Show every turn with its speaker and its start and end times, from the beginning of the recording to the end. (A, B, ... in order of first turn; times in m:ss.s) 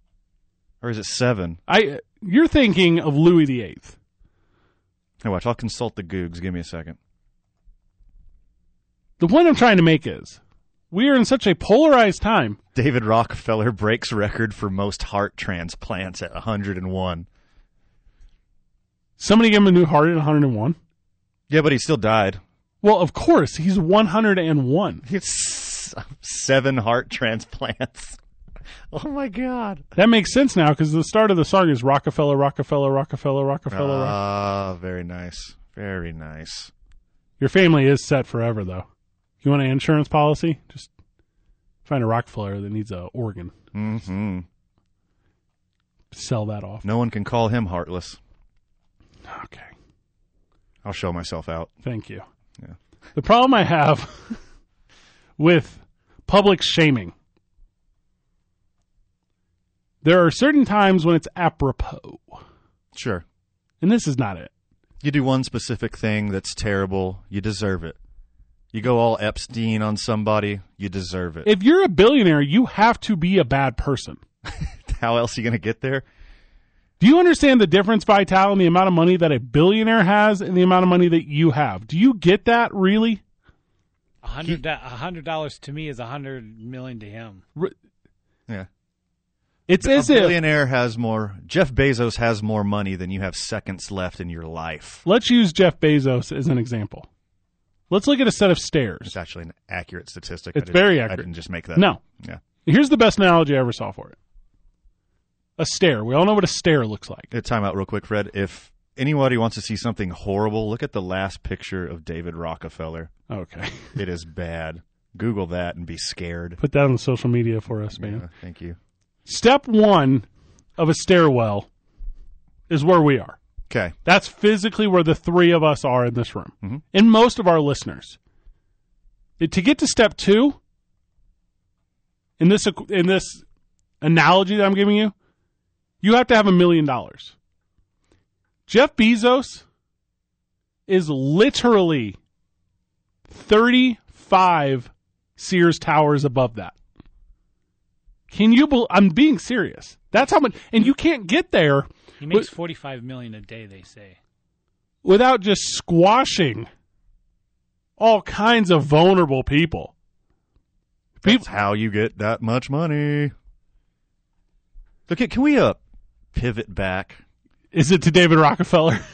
0:00.8-0:01.6 A
0:01.7-0:04.0 B
0:05.2-0:07.0 A
0:09.2-0:10.4 B
0:10.9-0:12.6 B
0:12.7-0:17.3 A
0:19.2-0:20.8 B
0:21.5-0:22.4 A
0:22.8-0:25.0 B
0:25.0-0:28.2 A
0:28.9-0:29.9 A
0:30.0-0:34.2 B
0:33.7-0:36.7 A
0:37.4-0:38.8 B
0:39.4-0:40.9 B
0:41.8-0:43.5 B
0:43.7-0:44.4 A
0:46.1-0:46.8 B
0:46.8-0:48.2 A
0:49.3-0:49.7 B
0:50.8-0:51.7 A
0:51.8-0:52.2 B
0:53.2-0:54.4 B
0:55.4-0:57.1 B
1:00.0-1:02.4 B
1:02.9-1:03.2 A
1:03.8-1:04.5 B
1:05.0-1:08.0 A
1:08.7-1:11.5 A
1:11.4-1:14.2 B
1:14.4-1:16.0 A
1:17.0-1:23.2 B
1:24.2-1:27.4 C
1:29.7-1:30.4 B
1:29.8-1:35.0 A
1:35.0-1:37.1 B
1:37.9-1:39.1 B
1:39.0-1:42.4 A
1:40.6-1:42.0 B
1:42.6-1:44.2 B
1:45.6-1:47.3 B
1:47.3-1:53.1 A
1:53.3-1:54.0 B
1:54.0-1:56.6 A
1:56.6-1:58.2 B
1:57.9-1:58.8 A
1:59.3-2:00.3 B
2:00.8-2:01.7 B
2:02.7-2:03.4 B
2:03.7-2:03.9 A
2:04.0-2:08.2 B
2:09.4-2:10.6 B
2:12.4-2:13.4 B
2:14.0-2:15.1 B
2:16.0-2:17.3 B
2:18.7-2:19.6 B
2:20.9-2:22.2 B
2:23.3-2:26.7 B
2:28.3-2:32.5 B
2:32.2-2:34.2 C
2:35.0-2:36.7 B
2:38.0-2:39.9 B
2:41.2-2:41.4 B
2:41.2-2:43.3 A
2:45.1-2:45.8 A
2:46.3-2:47.2 A
2:47.7-2:49.0 B